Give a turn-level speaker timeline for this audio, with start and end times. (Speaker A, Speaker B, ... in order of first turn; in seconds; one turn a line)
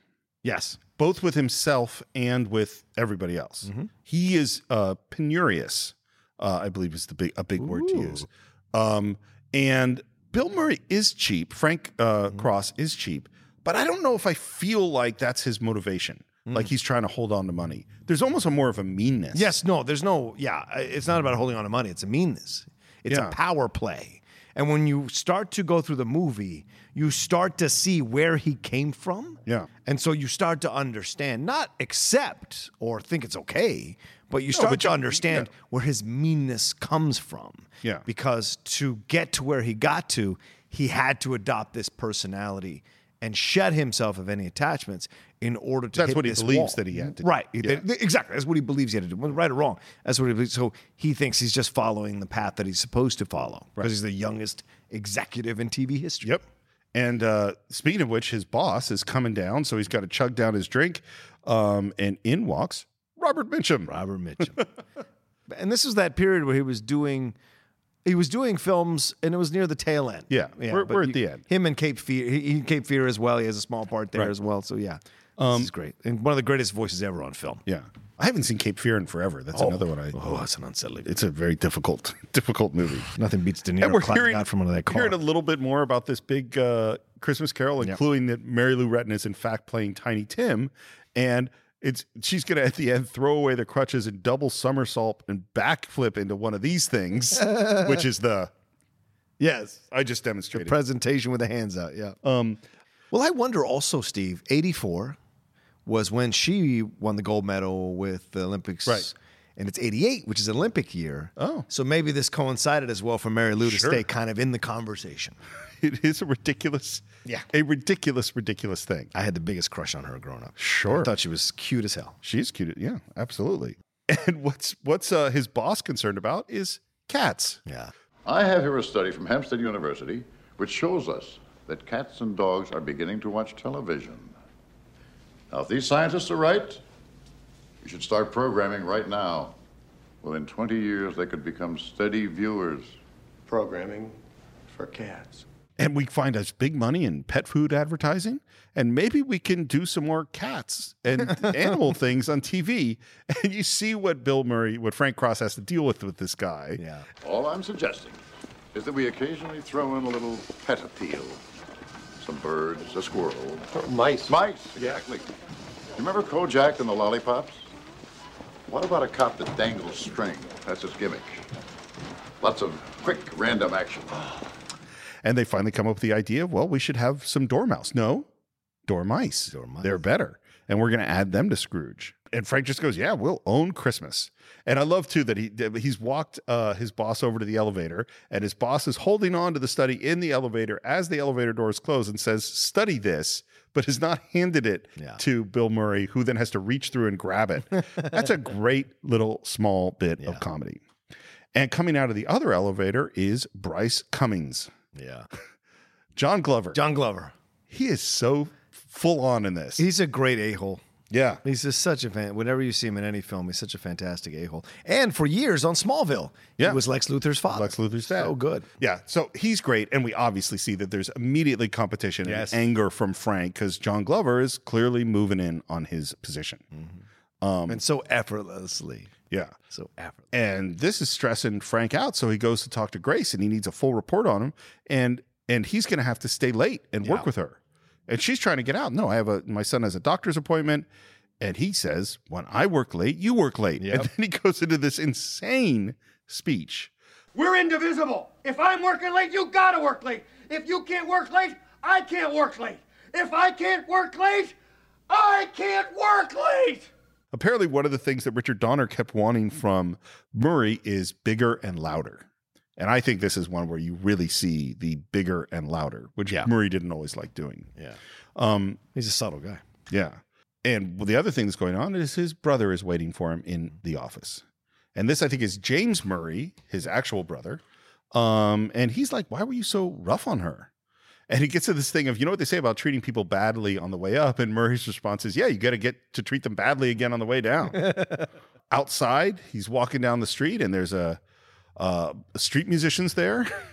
Speaker A: 0.4-0.8
Speaker B: 1.0-19.6
Speaker A: 3.6-3.9
Speaker A: 7.6-8.3
Speaker A: 19.3-56.4
Speaker B: 23.1-23.4
Speaker B: 34.5-35.5
Speaker B: 46.0-47.9
Speaker B: 56.9-64.0
Speaker A: 63.9-64.7
Speaker A: 65.5-67.4
Speaker A: 68.0-77.6
Speaker B: 70.3-71.5
Speaker B: 75.4-75.7
Speaker B: 77.7-80.4
Speaker A: 79.5-81.2
Speaker B: 81.0-83.1
Speaker A: 83.1-85.2
Speaker B: 83.8-98.5
Speaker A: 97.4-98.0
Speaker A: 99.4-99.9
Speaker B: 99.9-100.8
Speaker A: 100.5-102.2
Speaker B: 102.2-102.6
Speaker A: 103.1-105.2
Speaker A: 105.9-115.4
Speaker B: 111.4-111.7
Speaker B: 113.6-114.0
Speaker B: 115.8-119.1
Speaker A: 119.1-122.2
Speaker B: 120.6-121.1
Speaker B: 122.2-127.6
Speaker A: 127.7-127.9
Speaker C: 128.2-134.3
Speaker C: 135.5-136.8
Speaker C: 137.8-139.6
Speaker C: 140.2-143.0
Speaker D: 143.5-144.2
Speaker D: 144.7-145.4
Speaker B: 145.8-156.8
Speaker A: 151.3-151.7
Speaker A: 156.8-157.1
Speaker C: 157.2-158.2
Speaker C: 158.7-161.4
Speaker C: 162.2-163.7
Speaker D: 163.7-165.0
Speaker C: 164.3-165.2
Speaker C: 166.0-167.7
Speaker C: 168.7-171.5
Speaker C: 172.4-174.4
Speaker B: 175.2-178.3
Speaker B: 178.9-200.8
Speaker A: 179.5-180.0
Speaker A: 198.0-198.2
Speaker B: 201.6-204.7
Speaker A: 204.9-205.3
Speaker B: 206.2-206.8
Speaker A: 206.7-207.3
Speaker B: 207.7-209.9
Speaker A: 209.8-210.8
Speaker B: 211.1-211.4
Speaker A: 211.4-218.7
Speaker B: 217.5-226.6
Speaker A: 222.2-222.7
Speaker A: 226.8-227.0
Speaker B: 227.4-227.8
Speaker A: 227.7-229.1
Speaker B: 229.3-229.6
Speaker A: 229.7-230.3
Speaker B: 230.3-240.9
Speaker B: 241.4-246.9
Speaker A: 243.8-244.1
Speaker D: 247.3-254.6
Speaker D: 255.1-256.9
Speaker B: 257.3-267.7
Speaker B: 268.4-268.8
Speaker A: 268.9-269.6
Speaker B: 269.9-274.4
Speaker B: 274.9-277.6
Speaker B: 278.1-280.7
Speaker B: 281.3-287.9
Speaker A: 287.8-288.2
Speaker B: 288.7-291.2
Speaker B: 291.8-293.5